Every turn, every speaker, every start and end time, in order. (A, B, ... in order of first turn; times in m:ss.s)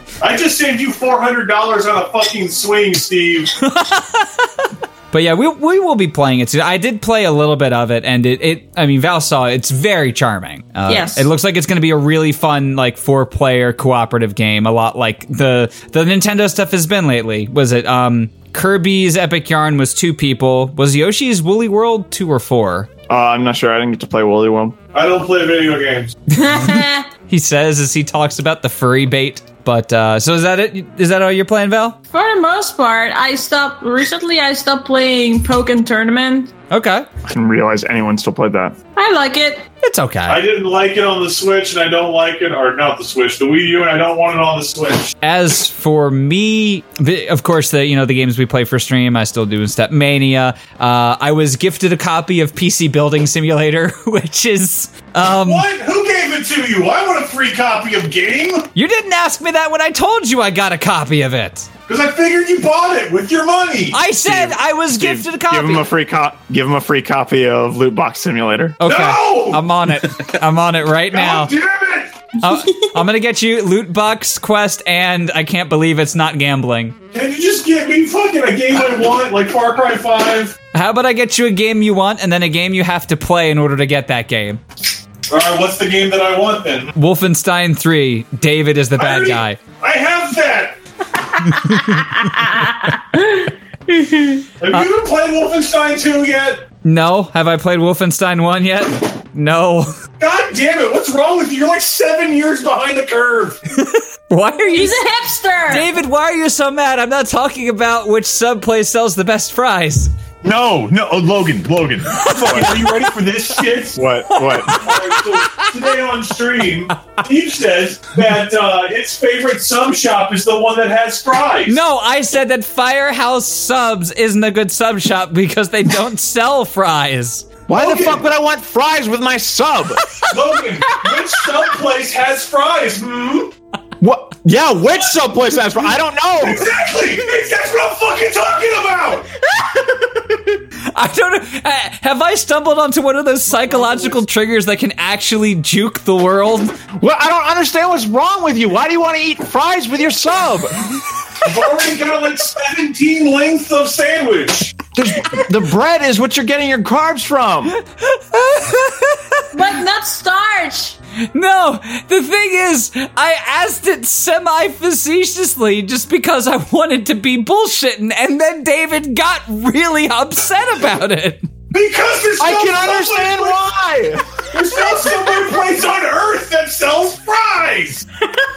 0:00.2-0:03.5 A
0:03.6-0:22.9 B
0:10.9-0:11.3 C
0:23.1-0:24.8 D
0:24.9-0:26.2 A
0:26.3-0:27.1 C
0:27.2-0:32.0 B
0:32.1-0:36.5 C
0:36.7-0:37.1 B
0:37.2-0:38.8 D
0:39.0-0:39.6 C
0:39.8-0:40.4 B
0:40.2-0:45.1 A
0:45.2-0:55.7 B
0:55.2-0:58.7 A
0:58.8-1:01.7 B
1:01.9-1:04.0 A
1:03.9-1:05.9 B
1:04.3-1:08.8 D
1:08.8-1:11.5 B
1:08.8-1:09.6 A
1:11.1-1:12.3 A
1:12.4-1:17.0 B
1:17.1-1:20.6 A
1:20.7-1:24.6 B
1:25.3-1:26.9 A
1:26.9-1:29.6 B
1:29.0-1:30.8 A
1:31.5-1:32.0 B
1:34.0-1:34.4 C
1:34.6-1:36.6 A
1:36.8-1:40.0 B
1:40.2-1:43.6 A
1:43.8-1:45.0 B
1:44.7-1:45.9 C
1:45.7-1:50.1 B
1:50.4-1:54.0 A
1:52.2-1:52.6 B
1:52.3-1:52.8 D
1:53.9-1:54.8 D
1:54.3-1:55.9 B
1:54.6-2:01.8 A
2:01.7-2:07.5 B
2:07.7-2:10.0 D
2:07.7-2:08.2 A
2:10.2-2:13.5 A
2:14.0-2:16.7 D
2:15.0-2:15.6 A
2:16.4-2:19.3 A
2:20.9-2:26.8 B
2:27.0-2:30.8 D
2:31.4-2:34.8 A
2:35.0-2:37.8 D
2:37.8-2:39.4 B
2:39.5-2:41.0 C
2:41.3-2:51.5 B
2:51.7-2:53.8 A
2:52.4-2:54.2 D
2:54.3-2:58.0 A